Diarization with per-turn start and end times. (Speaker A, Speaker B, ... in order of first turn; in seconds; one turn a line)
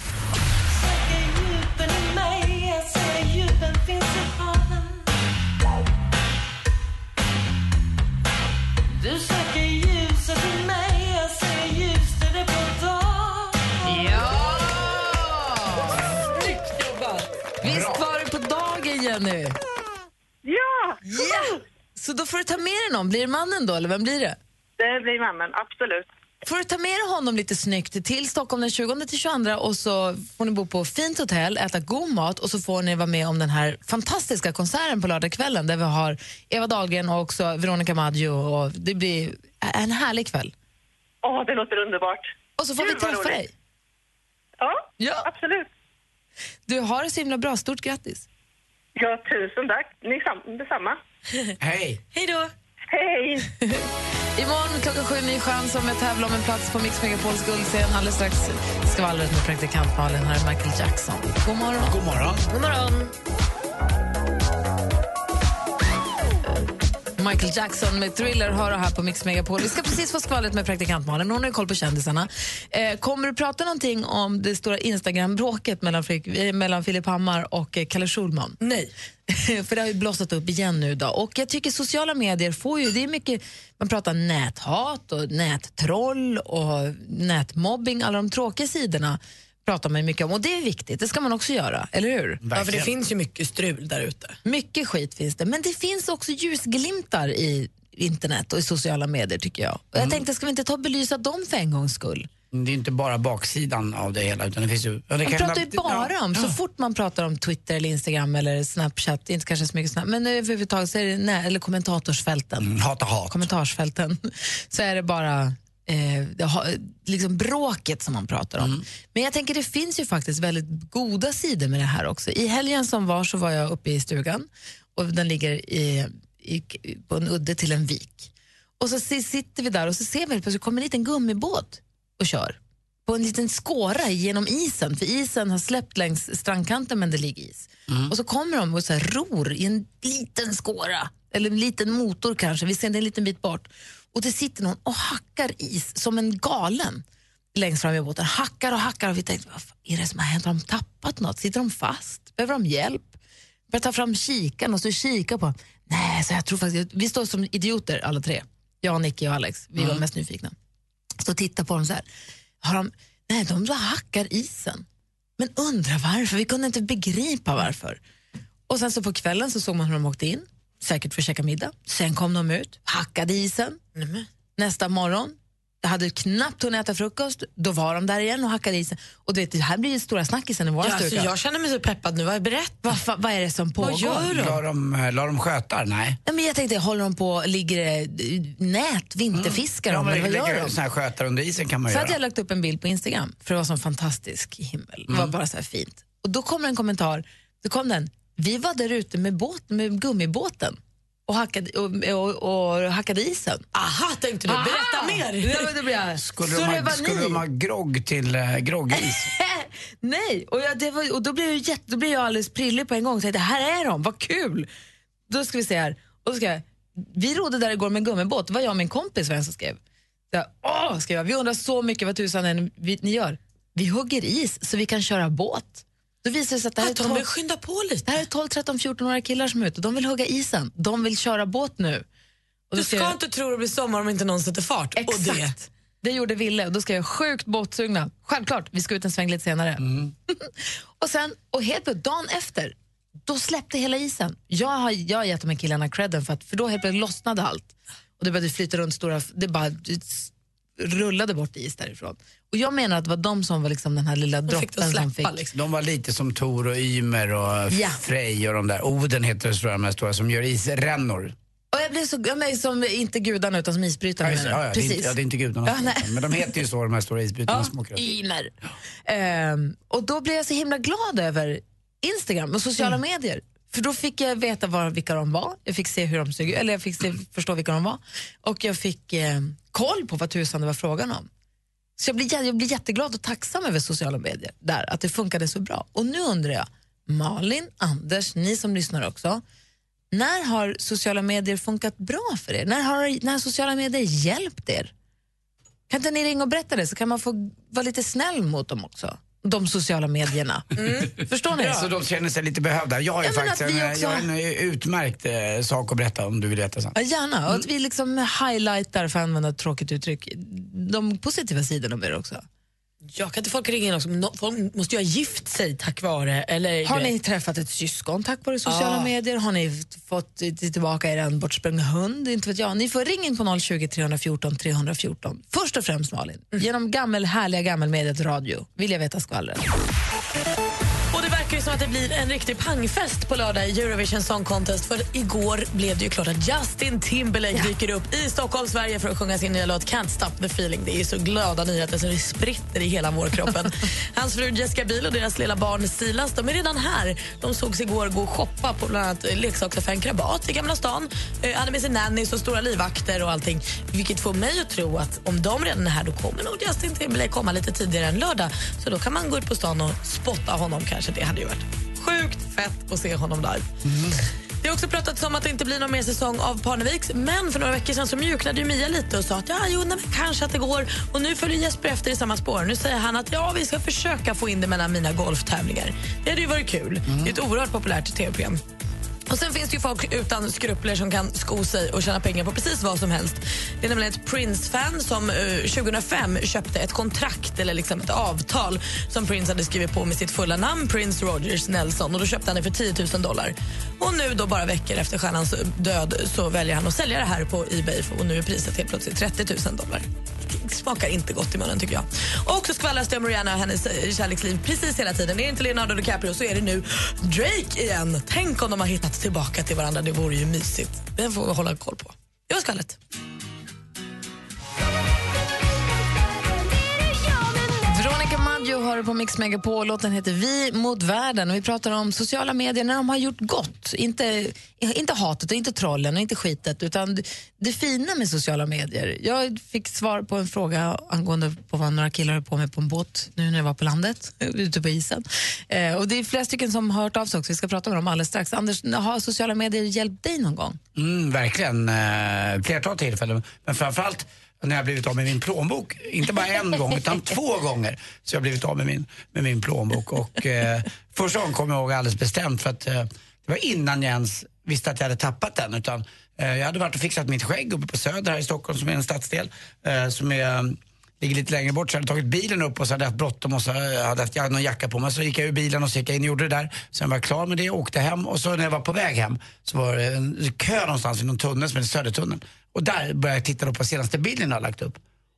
Speaker A: 0.7-5.1
Speaker A: 8.9-14.1
Speaker B: 13.8-16.1
Speaker C: 16.6-17.2
Speaker B: 17.6-19.6
Speaker D: 17.6-18.0
Speaker E: 20.4-21.4
Speaker B: 21.1-24.4
Speaker E: 24.8-26.1
Speaker B: 26.4-40.5
Speaker E: 41.2-43.4
Speaker B: 42.6-43.5
Speaker E: 44.6-45.7
Speaker B: 45.0-45.3
Speaker B: 46.7-48.3
Speaker E: 49.0-51.0
Speaker D: 51.6-52.0
Speaker C: 52.1-52.5
Speaker E: 52.9-53.5
Speaker B: 54.4-62.0
Speaker D: 61.9-62.5
Speaker C: 62.5-63.1
Speaker B: 67.2-78.6
Speaker C: 78.6-78.9
Speaker B: 79.3-92.4
Speaker D: 92.4-92.9
Speaker C: 92.5-94.4
Speaker B: 94.5-102.3
Speaker D: 100.0-100.2
Speaker D: 102.5-106.5
Speaker B: 105.2-112.7
Speaker D: 112.6-113.5
Speaker B: 113.3-147.0
Speaker B: 147.6-153.2
Speaker B: 153.7-160.5
Speaker D: 159.8-160.0
Speaker B: 161.2-162.1
Speaker B: 162.6-164.8
Speaker B: 165.4-168.0
Speaker B: 168.7-173.8
Speaker C: 174.0-174.3
Speaker B: 174.6-181.3
Speaker C: 180.8-183.0
Speaker B: 182.8-184.4
Speaker C: 183.8-184.6
Speaker D: 184.2-186.2
Speaker B: 186.2-190.8
Speaker D: 189.3-192.2
Speaker B: 191.9-203.7
Speaker D: 195.1-195.3
Speaker C: 203.7-205.7
Speaker B: 204.5-207.4
Speaker D: 206.2-209.3
Speaker B: 209.3-214.7
Speaker B: 215.3-219.8
Speaker B: 220.3-227.3
Speaker C: 226.8-228.2
Speaker B: 228.1-232.1
Speaker B: 232.7-233.2
Speaker C: 232.8-235.7
Speaker B: 235.0-239.8
Speaker D: 239.8-240.1
Speaker B: 240.4-242.7
Speaker B: 243.3-255.4
Speaker C: 254.5-255.5
Speaker D: 255.5-261.3
Speaker B: 257.7-258.0
Speaker B: 261.7-265.1
Speaker D: 264.2-268.0
Speaker B: 265.7-266.2
Speaker B: 267.5-268.5
Speaker B: 269.1-281.3
Speaker B: 282.0-289.4
Speaker B: 290.1-294.9
Speaker B: 295.9-301.9
Speaker C: 300.8-301.1
Speaker D: 301.6-306.9
Speaker B: 303.2-304.3
Speaker B: 306.9-312.4
Speaker C: 313.1-317.1
Speaker B: 316.8-329.7
Speaker C: 318.7-319.1
Speaker C: 331.1-363.7
Speaker D: 363.9-364.2
Speaker C: 364.6-378.6
Speaker D: 377.1-377.3
Speaker C: 379.3-413.0
Speaker B: 417.9-440.8
Speaker D: 441.0-475.0